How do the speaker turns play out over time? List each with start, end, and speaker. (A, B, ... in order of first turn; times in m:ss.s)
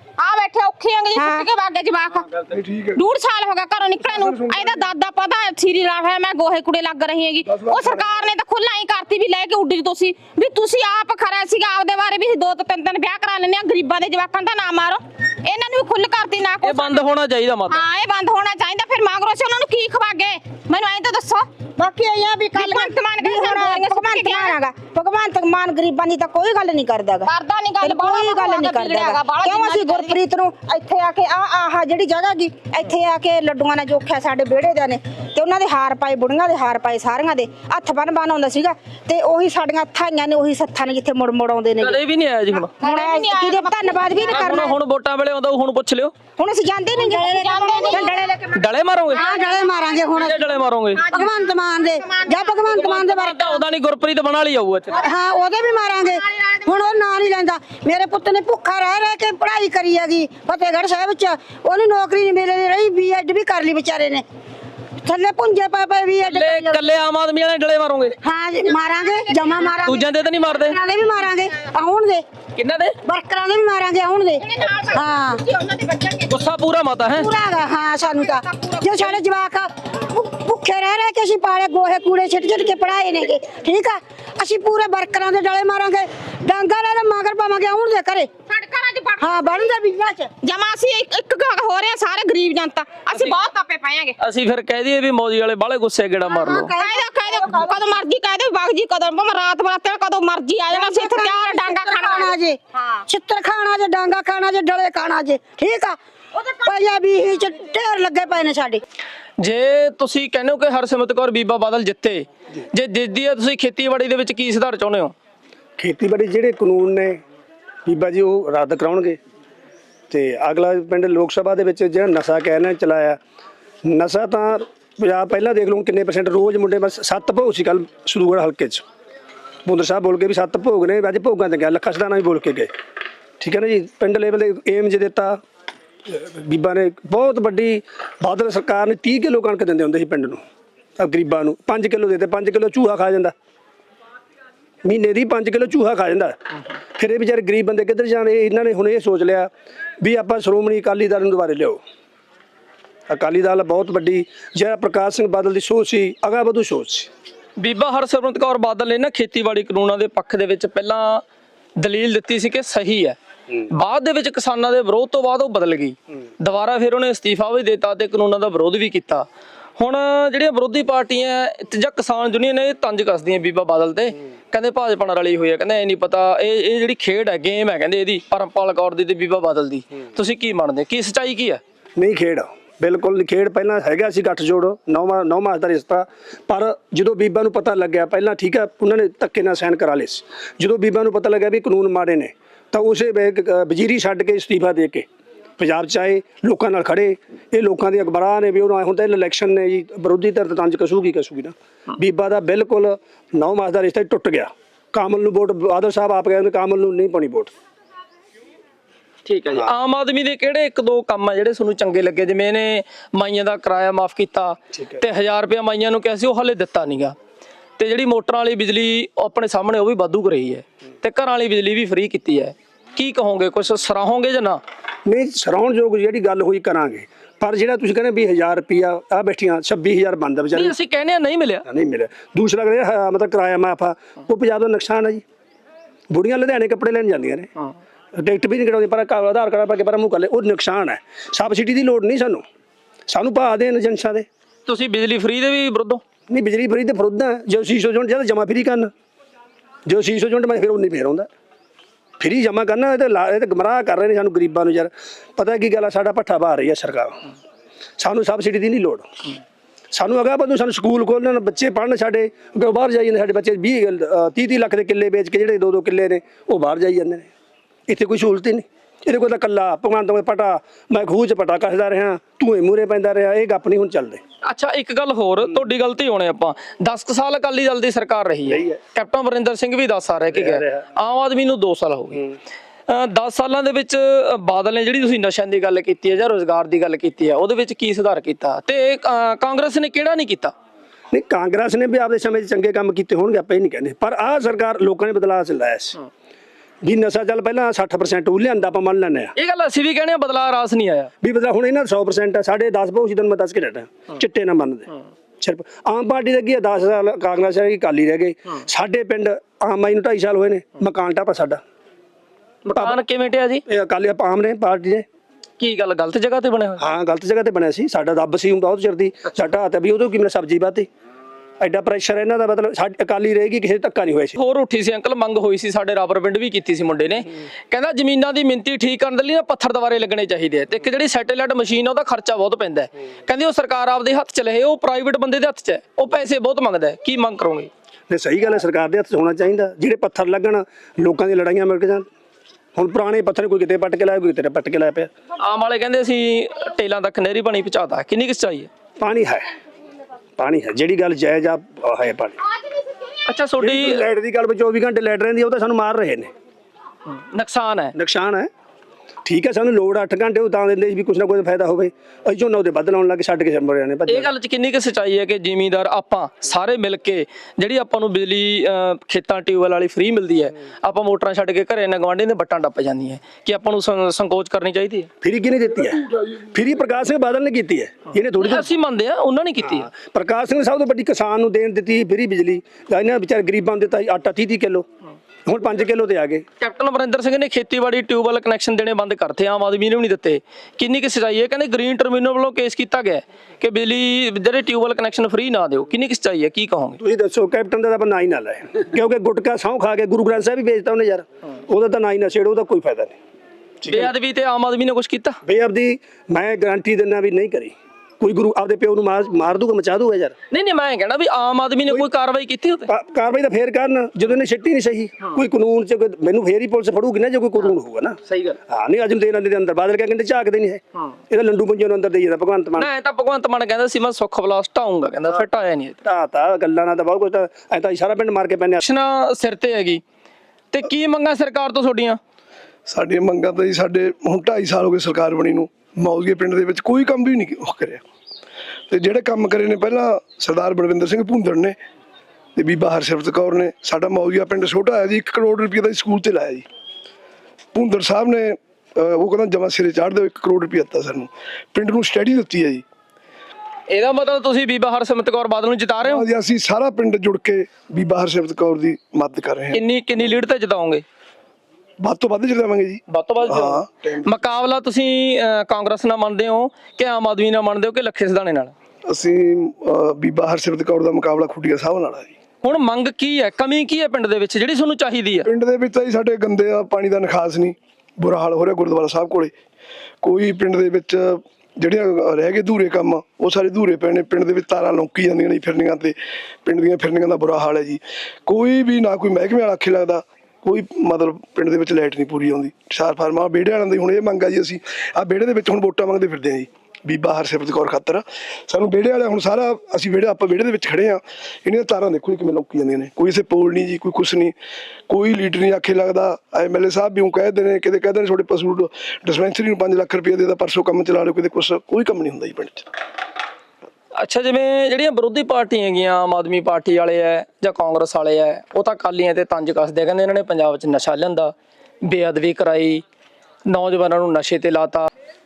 0:00.2-0:02.4 A
0:01.2-0:01.5 B
0:02.5-0:03.0 C
0:02.9-0:17.0 A
0:04.1-0:04.8 C
0:07.5-0:08.1 C
0:16.6-0:17.8 D
0:17.7-0:21.5 A
0:21.8-0:42.0 B
0:22.5-0:24.6 A
0:27.2-0:30.2 A
0:41.8-0:42.7 D
0:42.8-0:44.7 A
0:42.8-0:44.8 B
0:44.3-0:46.1 D
0:46.4-0:48.6 B
0:46.9-0:48.2 A
0:48.5-0:49.3 D
0:49.1-0:53.6 A
0:49.1-0:50.4 B
0:50.1-0:51.0 D
0:51.0-0:53.4 B
0:52.7-0:55.0 D
0:54.9-0:55.4 A
0:55.0-1:04.2 B
0:56.0-0:56.9 A
1:05.0-1:06.9 B
1:06.2-1:08.2 D
1:08.2-1:12.2 B
1:08.8-1:10.0 A
1:09.8-1:10.8 D
1:12.6-1:13.0 D
1:13.0-1:15.4 B
1:14.4-1:16.4 A
1:16.3-1:17.3 D
1:17.1-1:28.3 B
1:18.1-1:19.2 A
1:28.5-1:29.7 A
1:29.2-1:30.3 B
1:30.4-1:34.2 A
1:34.2-1:36.7 D
1:36.3-1:37.9 B
1:36.7-1:43.0 A
1:40.7-1:46.0 B
1:46.6-1:48.8 B
1:49.4-1:55.1 D
1:55.8-1:57.2 E
1:57.9-1:59.2 E
2:00.1-2:03.2 E
2:03.8-2:08.8 E
2:09.6-2:12.7 E
2:13.4-2:15.4 E
2:16.1-2:20.4 E
2:21.0-2:23.3 E
2:24.8-2:26.4 E
2:27.0-2:29.5 E
2:30.0-2:31.8 E
2:33.1-2:37.1 E
2:37.6-2:41.2 D
2:41.8-2:43.2 D
2:43.7-2:49.3 D
2:49.8-3:01.6 D
3:02.0-3:15.1 E
3:15.6-3:27.5 E
3:29.3-3:37.2 D
3:37.8-3:44.6 D
3:45.1-3:50.7 E
3:50.5-3:51.6 D
3:51.7-3:55.2 E
3:56.1-3:57.5 E
3:58.2-4:02.4 E
4:03.1-4:04.3 E
4:04.7-4:06.0 D
4:06.3-4:08.9 E
4:09.9-4:11.3 E
4:12.2-4:17.2 E
4:18.0-4:19.1 E
4:19.9-4:27.3 E
4:27.9-4:34.2 E
4:34.4-4:42.2 D
4:38.5-4:38.8 E
4:40.3-4:40.8 E
4:42.9-4:50.5 D
4:51.1-4:56.0 E
4:56.8-4:59.3 E
4:59.4-5:01.1 D
5:01.2-5:04.9 E
5:05.4-5:11.6 E
5:12.7-5:13.6 D
5:13.7-5:15.1 E
5:15.6-5:16.8 D
5:16.8-5:20.9 E
5:21.6-5:24.4 E
5:24.4-5:37.7 D
5:38.1-5:42.1 E
5:42.8-5:45.1 E
5:45.4-5:48.7 D
5:49.0-5:49.5 E
5:50.4-5:52.4 E
5:53.2-5:54.0 D
5:53.6-5:56.3 E
5:57.1-5:57.9 D
5:58.0-5:58.5 E
5:59.2-6:04.3 E
6:04.1-6:15.1 D
6:15.2-6:18.7 E
6:18.4-6:19.9 D
6:19.6-6:24.9 E
6:25.5-6:26.4 E
6:26.6-6:37.0 D
6:37.0-6:43.2 E
6:43.8-6:44.1 E
6:43.9-6:45.4 D
6:45.5-6:50.4 E
6:50.5-6:52.9 D
6:52.9-6:58.2 E
6:58.3-6:58.6 D
6:58.7-7:02.9 E
7:02.8-7:06.0 D
7:06.0-7:08.8 E
7:08.8-7:10.0 D
7:10.7-7:12.2 D
7:12.9-7:18.0 C
7:18.9-7:21.8 C
7:22.6-7:26.6 C
7:27.8-7:32.8 C
7:33.9-7:36.3 D
7:36.0-7:39.8 C
7:39.7-7:41.0 D
7:42.0-7:44.3 C
7:43.1-7:48.7 D
7:49.1-7:52.3 C
7:52.6-7:55.5 D
7:55.5-7:59.5 C
8:00.2-8:24.6 C
8:25.1-8:32.9 C
8:34.2-8:43.0 D
8:43.7-8:45.1 D